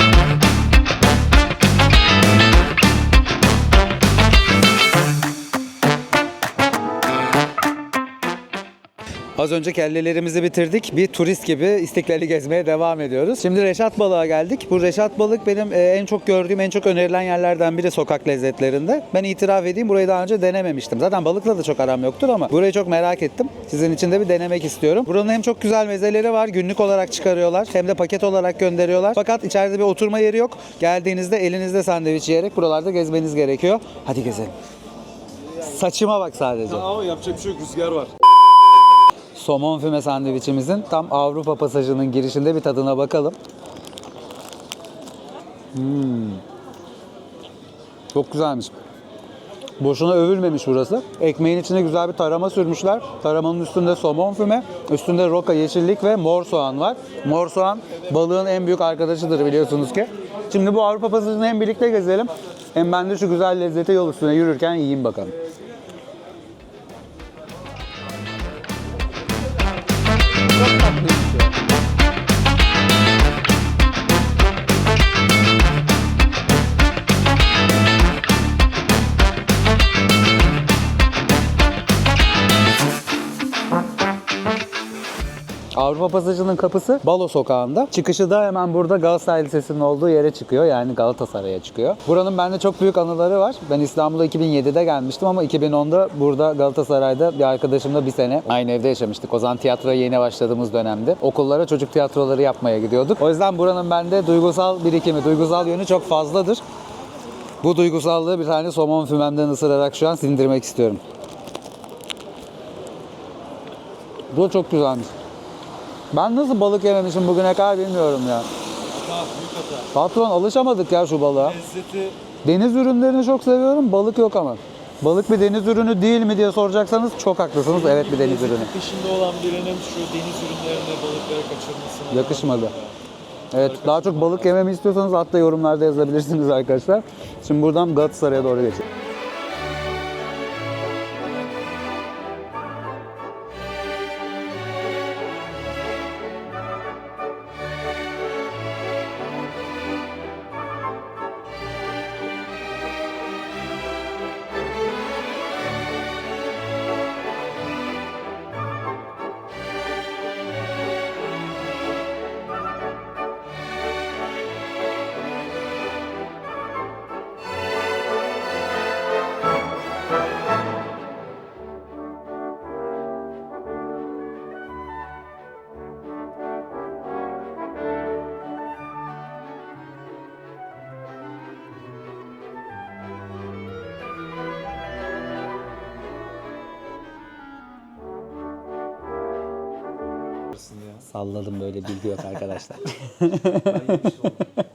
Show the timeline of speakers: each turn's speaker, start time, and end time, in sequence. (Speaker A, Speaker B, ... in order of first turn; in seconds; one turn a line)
Speaker A: 9.3-34.5
Speaker A: 35.6-36.9
Speaker B: 36.7-38.1
Speaker A: 39.3-43.4
Speaker A: 45.7-46.4
Speaker A: 48.1-48.7
Speaker A: 49.8-65.3
Speaker A: 70.5-71.5
Speaker A: 85.7-106.6
Speaker A: 107.6-111.0
Speaker A: 114.3-115.1
Speaker A: 116.1-118.5
Speaker B: 118.9-119.9
Speaker A: 119.9-121.6
Speaker B: 121.5-122.2
Speaker A: 122.4-128.7
Speaker B: 127.8-132.9
Speaker A: 132.1-132.7
Speaker A: 133.5-138.9
Speaker B: 133.8-134.4
Speaker B: 190.5-191.0
Speaker A: 191.0-194.3
Speaker B: 193.7-194.4